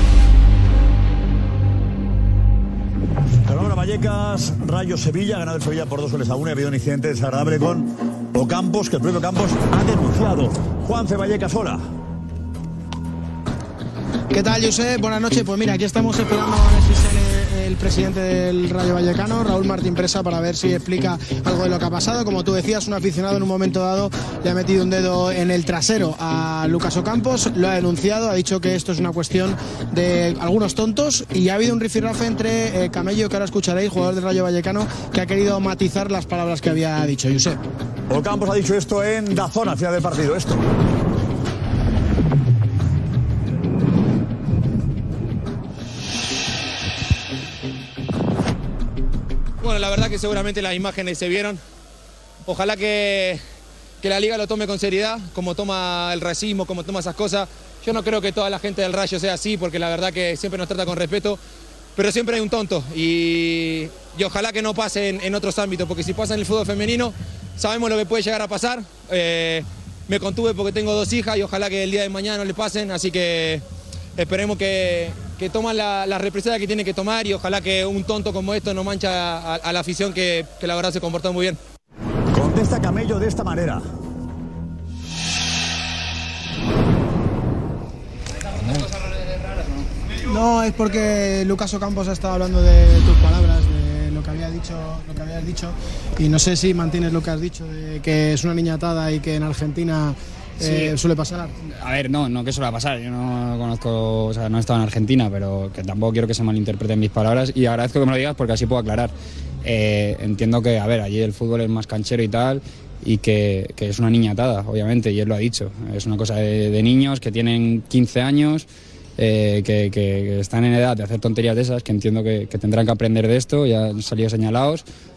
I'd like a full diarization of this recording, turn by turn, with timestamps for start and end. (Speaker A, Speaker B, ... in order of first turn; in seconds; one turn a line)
Speaker A: 3.5-11.9
Speaker B: 14.3-37.6
Speaker A: 38.1-40.7
Speaker C: 49.6-51.6
Speaker C: 52.5-53.4
Speaker C: 54.0-61.4
Speaker C: 62.0-73.6
Speaker C: 74.2-81.6
Speaker A: 82.3-83.9
Speaker B: 90.3-101.5
Speaker D: 100.6-101.0
Speaker D: 101.8-109.1
Speaker D: 109.6-124.9